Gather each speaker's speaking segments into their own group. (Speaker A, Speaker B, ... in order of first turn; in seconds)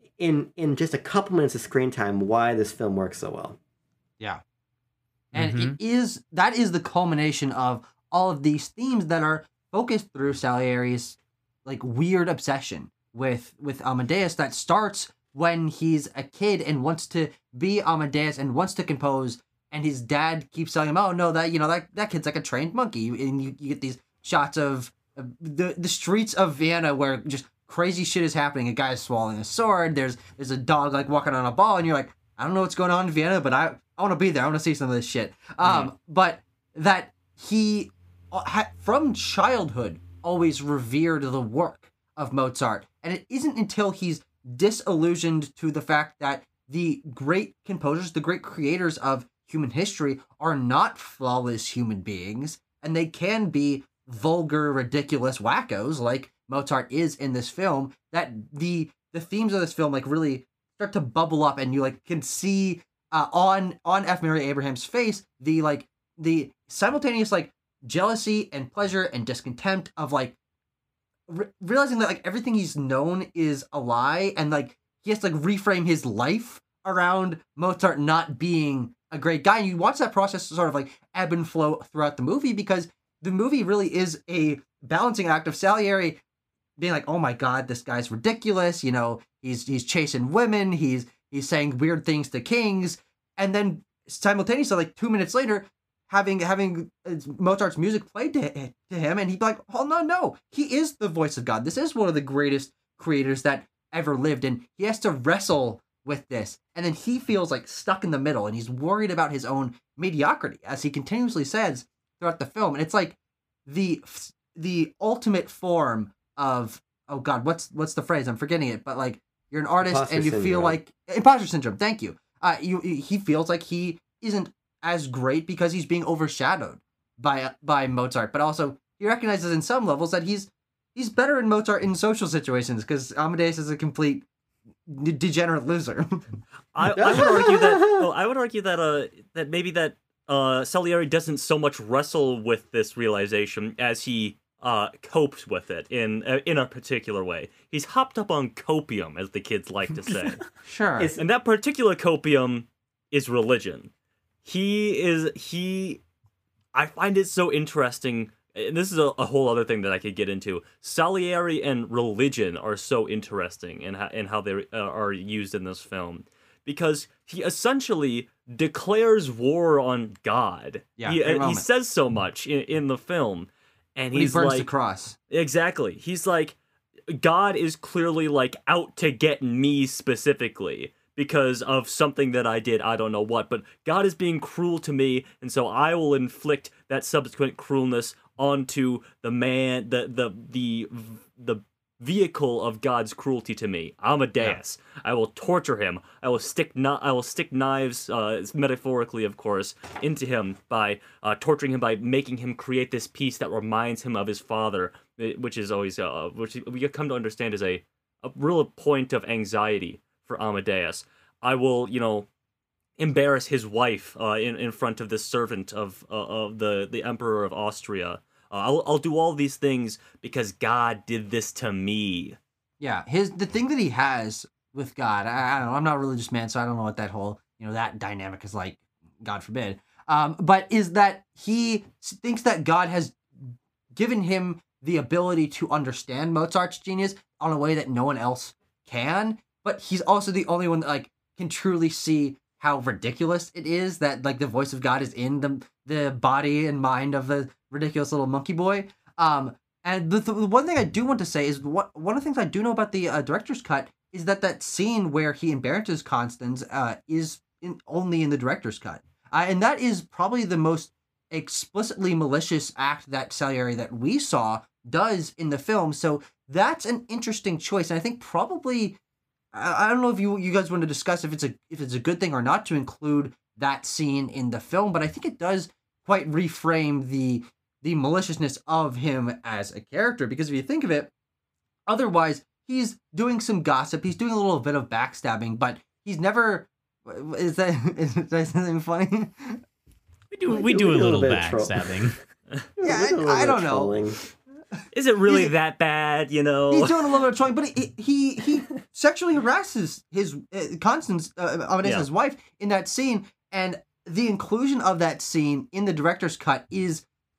Speaker A: 0.2-3.6, 119.8-120.8, 137.0-138.0, 151.0-151.2, 290.5-292.0, 292.8-294.2
Speaker B: 5.3-5.8, 290.3-292.2
Speaker C: 5.3-70.3, 71.3-86.2, 86.8-134.3, 134.8-136.4, 137.0-137.5, 150.6-151.1, 171.0-171.6, 174.1-175.2, 222.8-269.0, 269.5-281.1, 281.9-289.6, 292.8-294.0, 295.2-295.5, 296.7-307.0
Speaker D: 35.6-35.9, 136.7-150.4, 151.2-153.9, 154.4-156.0, 156.7-174.7, 175.3-176.6, 177.1-212.3, 213.0-222.4, 294.9-297.2